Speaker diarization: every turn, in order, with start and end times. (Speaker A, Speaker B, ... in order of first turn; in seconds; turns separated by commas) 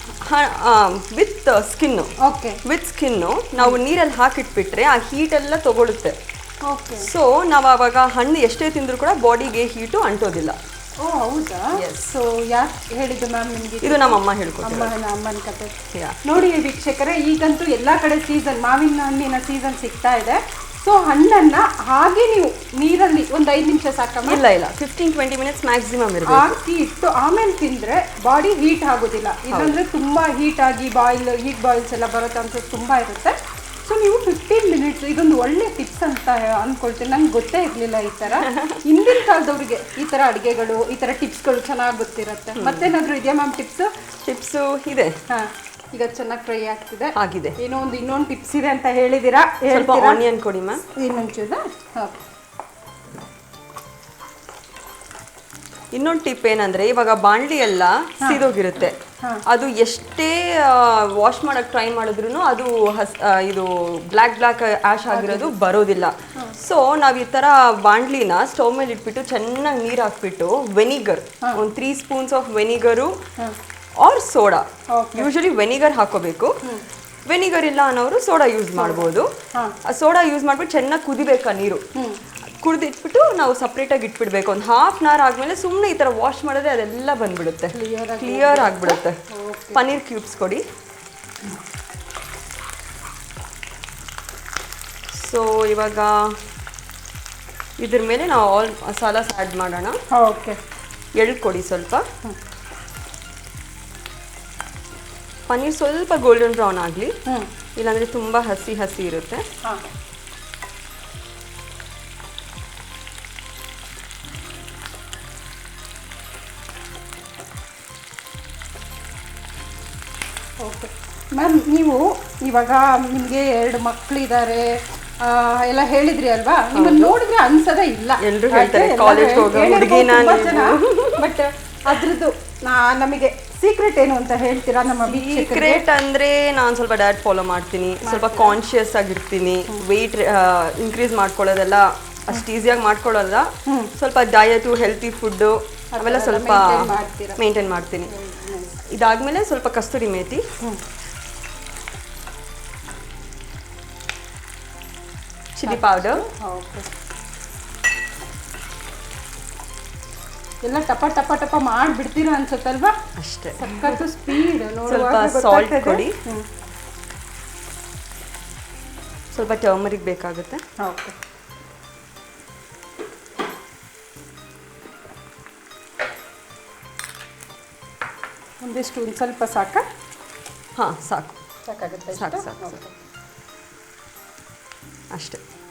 Speaker A: 0.2-2.1, Speaker B: 2.2-2.6, Speaker A: 2.6-6.2, Speaker B: 6.6-7.1, Speaker A: 7.0-10.6, Speaker B: 11.0-15.7, Speaker A: 11.8-12.1, Speaker A: 13.8-14.9, Speaker A: 15.9-16.2, Speaker B: 16.2-24.4, Speaker A: 24.2-26.6, Speaker B: 26.3-43.9, Speaker A: 29.5-29.8, Speaker A: 38.4-38.8, Speaker A: 42.6-42.9, Speaker A: 44.2-45.1, Speaker B: 45.3-50.2, Speaker A: 47.2-47.6, Speaker A: 49.7-50.8, Speaker B: 50.9-52.2, Speaker A: 55.9-73.2, Speaker B: 65.1-65.5, Speaker A: 74.0-76.6, Speaker B: 74.9-75.3, Speaker A: 77.3-79.3, Speaker B: 78.8-79.8, Speaker A: 79.8-81.8, Speaker B: 82.0-82.2, Speaker A: 82.6-89.2, Speaker B: 87.7-89.8, Speaker A: 89.7-90.6, Speaker A: 95.1-96.4, Speaker A: 97.8-100.0, Speaker B: 100.1-100.6, Speaker A: 101.2-102.1, Speaker A: 105.5-107.2, Speaker A: 107.8-109.5, Speaker B: 120.6-135.9, Speaker A: 126.7-127.2, Speaker A: 128.2-131.3, Speaker A: 135.1-148.1, Speaker B: 138.0-138.6, Speaker B: 143.7-143.9, Speaker B: 145.9-147.4, Speaker B: 148.1-148.8, Speaker A: 148.9-150.4, Speaker A: 155.6-156.2, Speaker B: 155.6-156.9, Speaker B: 160.6-162.9, Speaker A: 163.2-166.2, Speaker B: 163.6-166.5, Speaker A: 169.3-170.6, Speaker B: 170.8-171.2, Speaker B: 178.6-179.9, Speaker A: 180.8-181.4, Speaker B: 181.7-182.9, Speaker A: 182.1-182.8, Speaker A: 185.1-185.4